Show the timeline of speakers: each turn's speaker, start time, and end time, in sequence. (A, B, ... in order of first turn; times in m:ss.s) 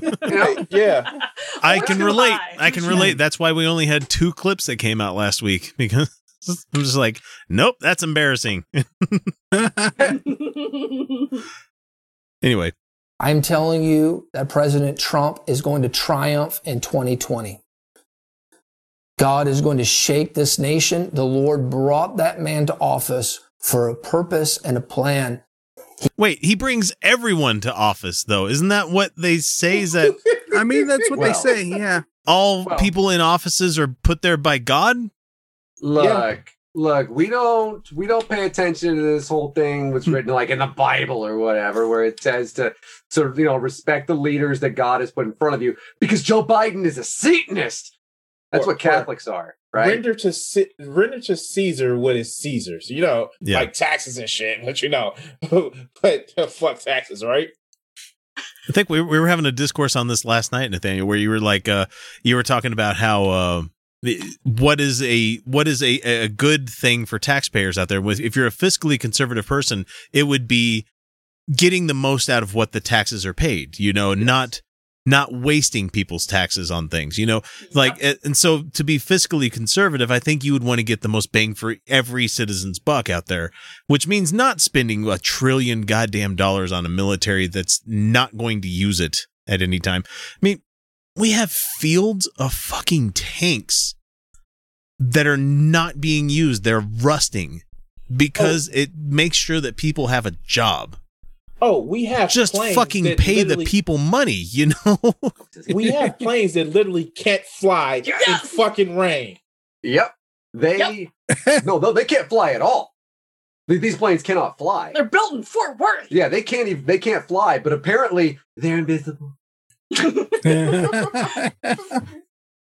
0:00.3-0:00.6 A
0:00.3-0:01.1 B
0:00.6-0:02.9 C
0:01.6-0:09.3 D
0:09.5-0:10.1 E
0:10.1-0:11.4 C
0:12.4-0:12.7 D
0:13.2-0:17.6 F
0:19.2-0:25.4 F
0:26.2-0:30.2 D
0:30.1-0:31.2 B
0:30.5-0:32.0 E
0:31.1-0:31.5 A
0:32.2-0:35.1 D
0:32.6-0:32.9 A
0:35.8-0:47.9 A
0:36.0-0:36.3 B
0:48.5-0:50.0 A
0:48.5-0:49.1 B
0:49.7-0:57.5 B
0:53.4-0:53.7 D
0:58.7-1:10.8 D
1:11.5-1:30.6 D
1:17.6-1:18.0 C
1:31.2-1:33.9 D
1:35.0-1:41.0 D
1:38.4-1:38.6 B
1:41.6-1:43.7 B
1:42.3-1:45.3 D
1:45.7-1:49.4 B
1:45.8-1:46.1 E
1:48.0-1:48.6 C
1:49.8-1:51.1 A
1:51.6-1:52.9 A
1:53.7-1:55.0 A
1:54.9-1:56.1 C
1:56.1-1:59.3 A
1:59.9-2:01.3 C
2:00.4-2:02.0 E